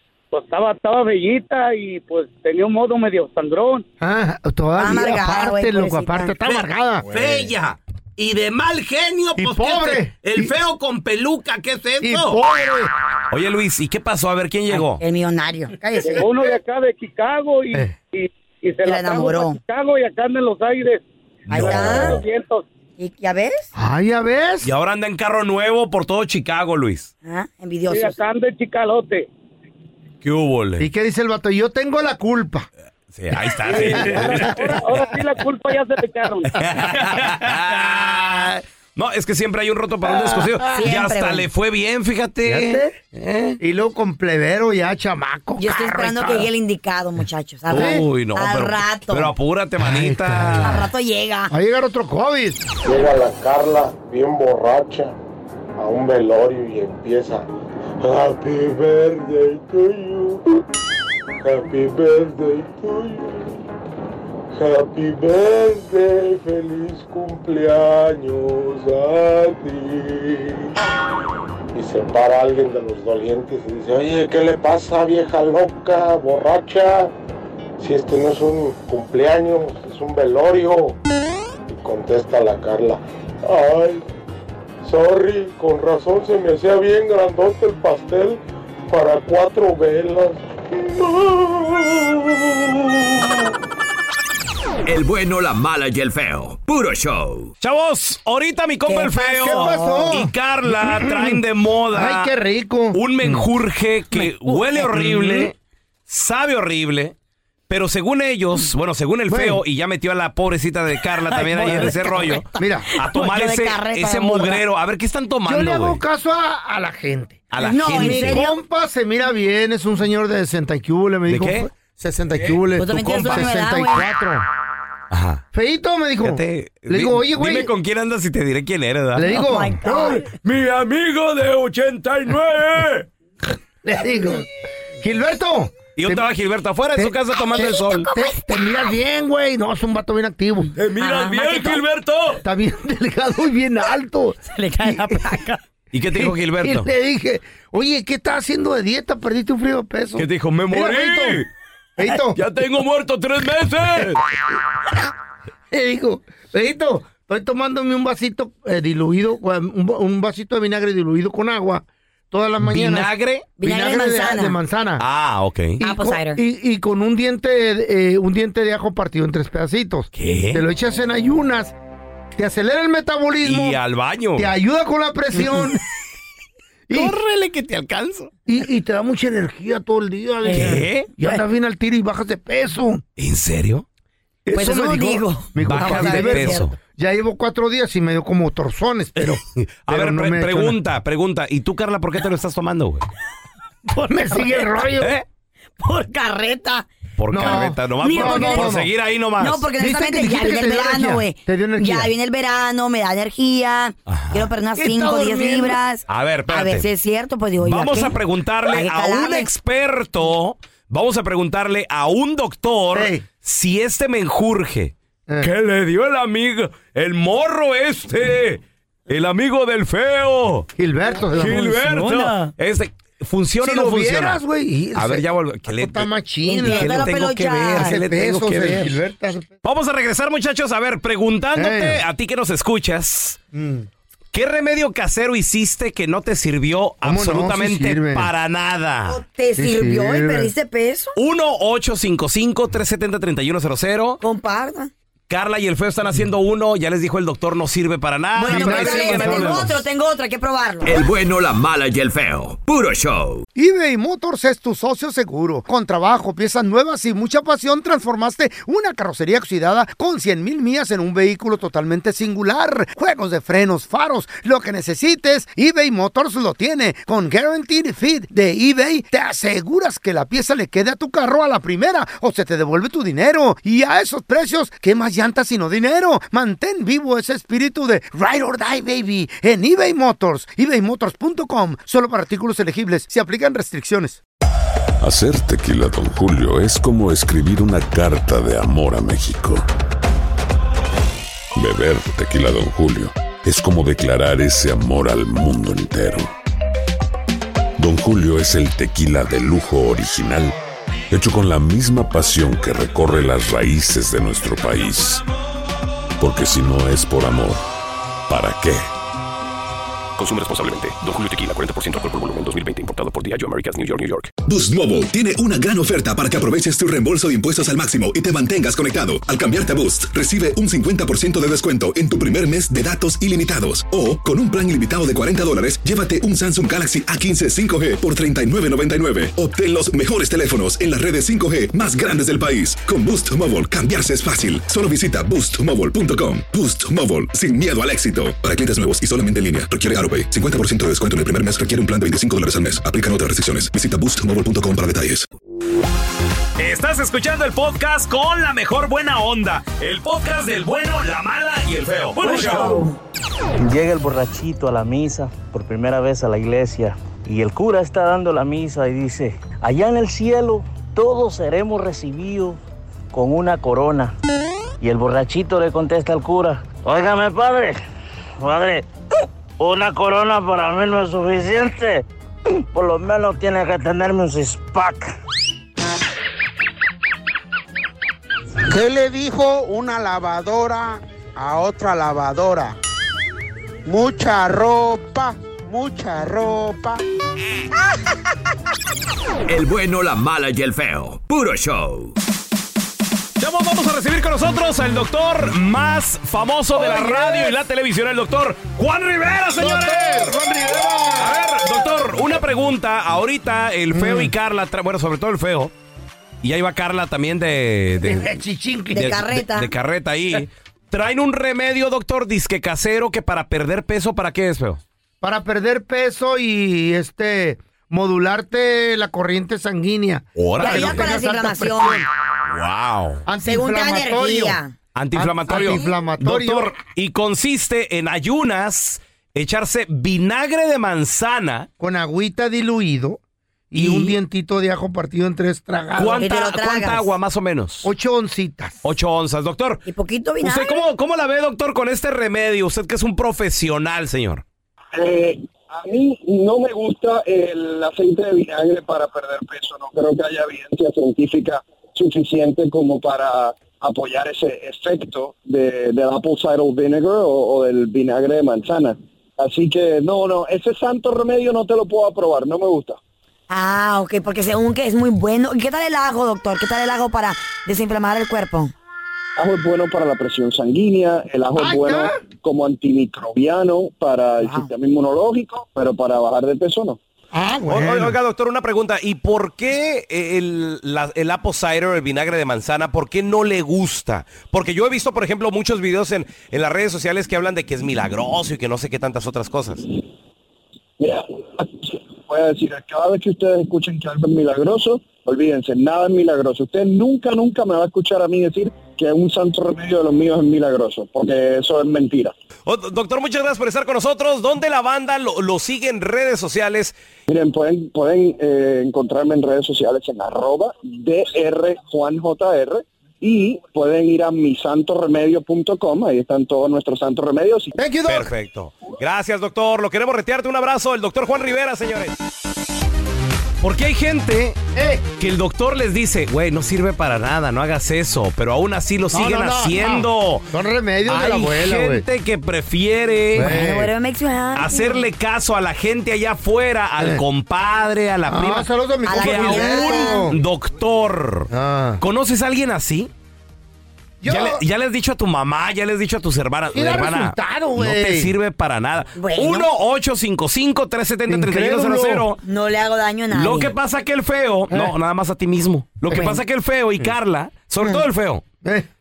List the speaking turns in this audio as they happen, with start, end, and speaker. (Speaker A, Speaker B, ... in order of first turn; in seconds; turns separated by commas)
Speaker A: 0.3-3.9, Speaker B: 4.0-7.3, Speaker C: 4.8-6.3, Speaker D: 6.4-12.4, Speaker B: 9.4-10.5, Speaker B: 12.0-12.9, Speaker D: 13.3-15.0, Speaker C: 14.7-16.3, Speaker A: 16.0-22.6, Speaker C: 18.8-19.6, Speaker B: 21.5-22.2, Speaker D: 21.5-22.0, Speaker C: 21.6-22.2, Speaker C: 23.0-23.7, Speaker B: 23.7-24.7, Speaker D: 24.6-27.1, Speaker C: 27.2-28.2, Speaker A: 27.9-29.3, Speaker D: 30.2-30.9, Speaker B: 30.8-32.7, Speaker D: 33.1-34.5, Speaker E: 33.6-34.0, Speaker B: 33.7-34.5, Speaker A: 34.1-36.5, Speaker D: 36.5-42.8, Speaker B: 40.0-40.8, Speaker C: 40.7-41.5, Speaker B: 42.4-46.5, Speaker C: 45.6-49.3, Speaker D: 47.7-50.9, Speaker B: 47.7-48.0, Speaker B: 49.8-50.8, Speaker C: 50.6-51.5, Speaker B: 51.5-52.6, Speaker E: 52.8-55.1, Speaker E: 55.8-57.5, Speaker E: 58.0-60.4, Speaker E: 61.4-63.6, Speaker E: 64.5-70.7, Speaker E: 71.7-77.1, Speaker E: 77.8-81.0, Speaker E: 81.7-84.0, Speaker E: 84.8-93.4, Speaker F: 94.8-97.5, Speaker D: 97.6-102.3, Speaker C: 98.8-100.2, Speaker B: 99.4-101.4, Speaker B: 101.9-103.5, Speaker D: 102.9-105.5, Speaker B: 104.8-105.5, Speaker D: 106.1-107.1, Speaker D: 107.7-116.0, Speaker B: 109.3-109.6, Speaker B: 111.3-112.9, Speaker C: 111.6-112.4, Speaker C: 113.0-114.6, Speaker B: 115.5-124.4, Speaker D: 117.5-118.5, Speaker C: 117.6-118.5, Speaker D: 121.3-121.7, Speaker C: 122.8-124.1, Speaker D: 123.0-123.5, Speaker D: 125.1-125.4, Speaker B: 125.5-127.7, Speaker D: 126.2-129.3, Speaker B: 129.1-130.2, Speaker C: 129.3-130.3, Speaker D: 130.3-133.1, Speaker B: 133.8-134.5, Speaker B: 135.0-136.2, Speaker D: 135.9-138.1, Speaker B: 136.9-140.7, Speaker D: 140.8-142.4, Speaker C: 141.0-141.8, Speaker B: 142.4-145.2, Speaker C: 144.5-145.6, Speaker D: 145.9-146.9, Speaker B: 146.1-151.4, Speaker D: 150.2-151.5, Speaker B: 152.0-152.4, Speaker D: 152.3-154.2, Speaker B: 155.7-165.0, Speaker D: 162.6-163.5, Speaker C: 163.6-164.6, Speaker D: 165.0-165.8, Speaker B: 165.8-171.7, Speaker C: 165.8-166.4, Speaker D: 170.1-170.6, Speaker B: 172.4-173.8, Speaker D: 173.4-174.5, Speaker B: 174.4-175.8, Speaker B: 176.9-177.1, Speaker D: 176.9-178.3, Speaker B: 178.5-183.0, Speaker C: 180.4-181.4, Speaker D: 180.5-181.1, Speaker D: 183.2-183.8, Speaker B: 184.4-190.8, Speaker C: 184.5-186.7, Speaker D: 185.6-186.8, Speaker D: 189.2-193.1, Speaker B: 194.0-195.1, Speaker C: 194.3-194.7, Speaker C: 195.8-196.9, Speaker D: 197.2-199.6, Speaker B: 197.3-198.9, Speaker C: 197.4-198.7, Speaker C: 199.4-208.2, Speaker B: 199.8-202.1, Speaker D: 204.1-204.5, Speaker B: 204.8-205.8, Speaker D: 206.1-206.8, Speaker D: 207.6-220.7, Speaker C: 208.7-209.5, Speaker B: 212.9-213.2, Speaker B: 220.8-222.4, Speaker D: 221.3-224.4, Speaker B: 223.6-227.1, Speaker D: 224.9-226.1, Speaker C: 226.5-228.0, Speaker D: 226.6-229.0, Speaker B: 227.8-229.5, Speaker D: 229.6-233.4, Speaker B: 231.6-232.0, Speaker B: 233.5-233.9, Speaker D: 234.3-239.2, Speaker B: 237.0-238.3, Speaker C: 239.1-241.1, Speaker B: 239.6-240.5, Speaker D: 241.2-244.2, Speaker C: 244.2-244.9, Speaker D: 245.3-249.7, Speaker C: 248.4-250.9, Speaker B: 248.4-249.8, Speaker F: 250.8-253.4, Speaker B: 253.5-284.2, Speaker G: 285.0-289.7, Speaker G: 291.5-296.3, Speaker G: 297.8-300.6, Speaker G: 301.1-305.2, Speaker G: 306.2-307.6, Speaker G: 308.3-308.9, Speaker H: 310.2-314.3, Speaker I: 314.4-345.2, Speaker D: 346.6-352.9, Speaker C: 352.2-353.0, Speaker J: 353.6-362.6, Speaker J: 363.1-364.1, Speaker J: 364.8-367.8, Speaker J: 368.4-368.9, Speaker J: 369.6-372.0, Speaker J: 372.7-375.1, Speaker K: 378.7-382.8, Speaker K: 383.8-387.0, Speaker F: 389.5-392.1, Speaker D: 393.4-400.4, Speaker B: 396.7-397.5, Speaker B: 399.6-401.6, Speaker D: 401.1-405.7, Speaker B: 403.9-404.3, Speaker D: 406.4-408.4, Speaker B: 408.0-409.2, Speaker C: 408.9-409.7, Speaker D: 408.9-414.8, Speaker B: 415.2-422.1, Speaker D: 420.4-421.1, Speaker C: 420.6-422.0, Speaker D: 422.5-423.2, Speaker B: 423.2-424.6, Speaker C: 423.4-424.7, Speaker D: 424.9-431.7, Speaker B: 425.1-426.7, Speaker B: 431.8-433.2, Speaker B: 433.7-436.2, Speaker D: 433.7-434.1, Speaker D: 435.9-437.9, Speaker C: 436.2-437.1, Speaker B: 437.8-438.8, Speaker D: 438.8-439.8, Speaker C: 439.9-440.8, Speaker D: 440.4-444.4, Speaker L: 444.9-463.0, Speaker C: 463.5-468.7, Speaker L: 469.4-477.0, Speaker B: 471.6-472.2, Speaker C: 474.4-474.7, Speaker B: 477.3-478.1, Speaker D: 477.7-489.8, Speaker L: 491.0-502.3, Speaker D: 502.6-506.9, Speaker L: 507.3-517.7, Speaker B: 517.7-518.3, Speaker D: 518.1-522.1, Speaker D: 523.6-524.6, Speaker B: 524.7-525.0, Speaker D: 525.2-530.4, Speaker B: 529.1-532.0, Speaker D: 531.0-533.5, Speaker B: 533.3-533.9, Speaker C: 533.4-535.1, Speaker D: 534.5-541.5, Speaker B: 538.3-540.4, Speaker C: 539.0-540.3, Speaker B: 541.5-542.0, Speaker D: 542.0-543.1, Speaker B: 544.2-544.6, Speaker D: 544.2-552.4, Speaker B: 546.7-548.3, Speaker C: 549.2-549.7, Speaker B: 551.3-552.3, Speaker C: 552.4-553.7, Speaker D: 553.3-558.4, Speaker C: 556.1-556.4